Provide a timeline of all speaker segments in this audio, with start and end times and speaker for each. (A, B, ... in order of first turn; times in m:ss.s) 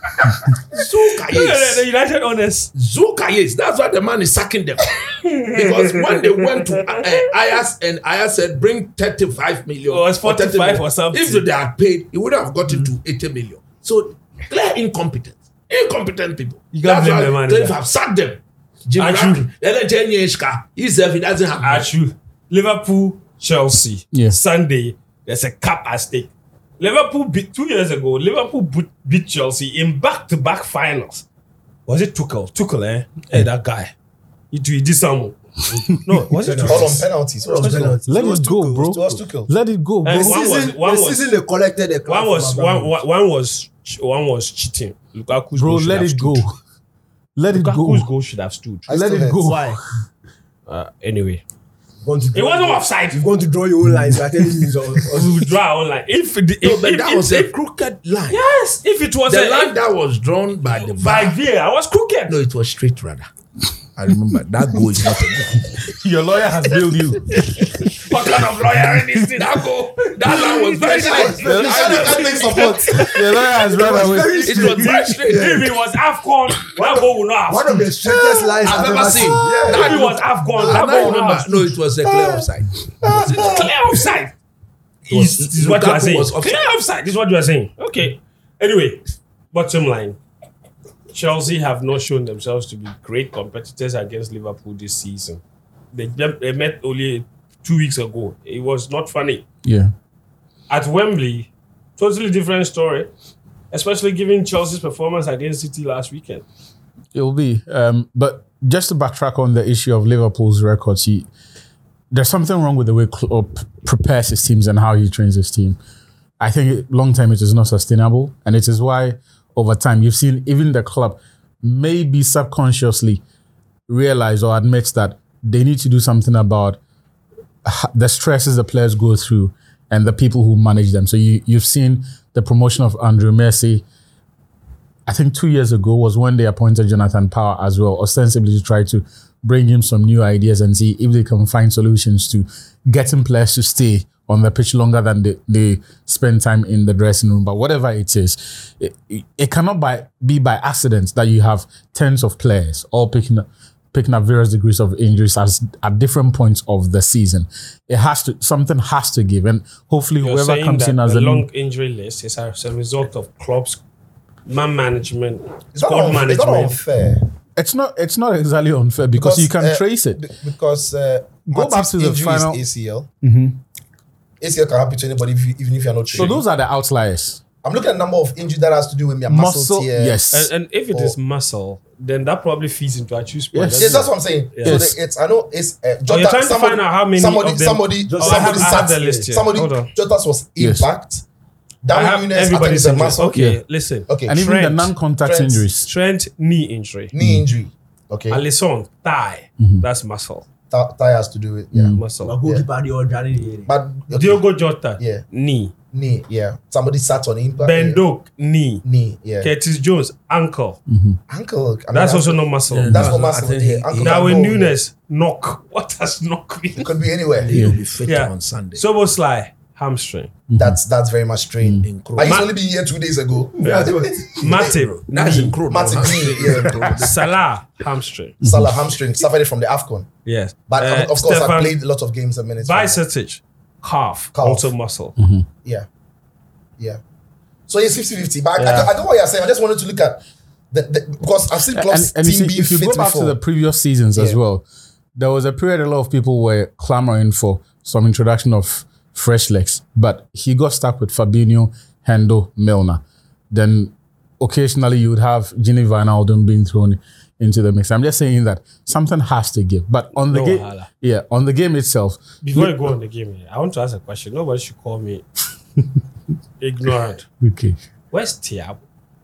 0:00.3-0:02.7 A
0:00.7-0:01.8 B
0:02.7-0:21.9 B
0:05.2-0:07.3 A
0:09.9-0:11.4 A
0:16.7-0:17.8 A
0:19.0-0:19.4 A
0:21.6-0:31.2 A
0:31.9-0:33.9 A
0:34.5-0:35.4 A
0:35.9-0:38.2 A
0:36.0-0:36.3 C
0:36.4-0:39.0 D
0:36.6-0:37.9 E
0:38.0-0:40.4 C
0:38.9-0:39.5 E
0:40.0-0:41.3 A
0:40.1-0:43.0 D
0:42.0-0:46.5 A
0:45.5-0:46.6 C
0:47.4-0:48.1 C
0:47.5-0:48.8 A
0:48.9-0:49.5 E
0:48.9-0:49.9 C
0:49.4-0:49.8 D
0:50.7-0:51.4 A
0:52.0-0:55.5 D
0:52.3-0:53.2 A
0:53.9-0:54.6 C
0:55.1-0:57.5 A
0:56.6-0:58.4 B
0:58.3-0:59.7 A
0:59.3-1:01.4 B
1:00.9-1:02.4 A
1:02.3-1:03.3 B
1:04.0-1:05.8 B
1:04.1-1:04.4 C
1:05.8-1:07.9 C
1:07.9-1:13.4 A
1:09.3-1:12.7 B
1:10.8-1:11.4 D
1:11.2-1:13.0 E
1:11.4-1:12.4 C
1:12.9-1:14.9 C
1:13.7-1:15.7 D
1:14.4-1:15.7 B
1:14.7-1:17.9 A
1:16.8-1:20.0 D
1:18.4-1:20.0 E
1:18.6-1:23.5 B
1:19.7-1:21.7 A
1:22.0-1:22.4 E
1:23.0-1:23.7 E
1:23.0-1:24.4 A
1:25.1-1:30.2 A
1:25.1-1:26.6 B
1:31.1-1:35.4 A
1:35.9-1:39.4 A
1:39.6-1:39.9 C
1:40.7-1:43.1 A
1:43.7-1:46.4 A
1:47.1-1:51.3 C
1:52.1-1:55.8 C
1:56.4-2:03.2 C
2:03.9-2:06.8 C
2:07.6-2:13.8 C
2:15.0-2:41.5 C
2:40.2-2:43.8 A
2:44.5-2:46.8 A
2:45.7-2:47.2 E
2:47.6-2:50.2 C
2:49.2-2:53.1 E
2:51.5-2:52.6 C
2:53.2-2:53.6 C
2:54.4-2:56.4 E
2:56.1-2:56.4 A
2:56.1-2:57.4 C
2:57.6-3:00.3 E
2:59.3-3:00.5 C
3:00.3-3:04.8 A
3:03.5-3:04.1 C
3:03.7-3:11.2 E
3:04.6-3:05.0 C
3:06.1-3:09.9 A
3:08.0-3:09.4 D
3:10.6-3:10.9 C
3:11.8-3:13.4 E
3:11.9-3:14.9 A
3:13.2-3:13.6 C
3:14.1-3:14.5 E
3:14.2-3:15.9 C
3:15.2-3:15.7 E
3:15.8-3:17.1 A
3:17.1-3:18.4 E
3:18.3-3:20.4 A
3:19.6-3:19.8 C
3:20.7-3:22.6 E
3:21.7-3:22.0 C
3:21.9-3:22.4 A
3:22.2-3:23.7 D
3:23.7-3:25.3 E
3:24.1-3:25.7 A
3:25.9-3:28.0 E
3:27.6-3:28.8 A
3:28.8-3:29.5 E
3:29.4-3:30.8 A
3:30.9-3:31.2 C
3:31.3-3:34.8 E
3:31.9-3:33.0 A
3:32.7-3:34.4 B
3:34.0-3:36.9 A
3:36.8-3:37.6 E
3:37.4-3:38.8 B
3:37.5-3:37.8 C
3:38.0-3:40.4 A
3:40.5-3:40.8 C
3:40.5-3:44.7 E
3:41.6-3:41.9 C
3:41.8-3:42.4 B
3:42.2-3:42.5 A
3:43.6-3:44.4 D
3:43.6-3:48.4 A
3:44.4-3:47.4 B
3:45.7-3:47.0 E
3:48.4-3:48.7 C
3:48.4-3:50.1 E
3:50.2-3:51.7 A
3:50.7-3:53.0 E
3:52.6-3:55.2 A
3:54.3-3:54.7 E
3:55.2-3:55.5 C
3:57.7-4:03.4 E
3:58.6-3:58.9 A
4:01.7-4:04.6 C
4:04.1-4:04.4 E
4:05.2-4:22.9 C
4:20.1-4:20.9 A
4:22.4-4:25.2 A
4:26.6-4:27.3 A
4:27.4-4:27.8 C
4:28.1-4:28.8 A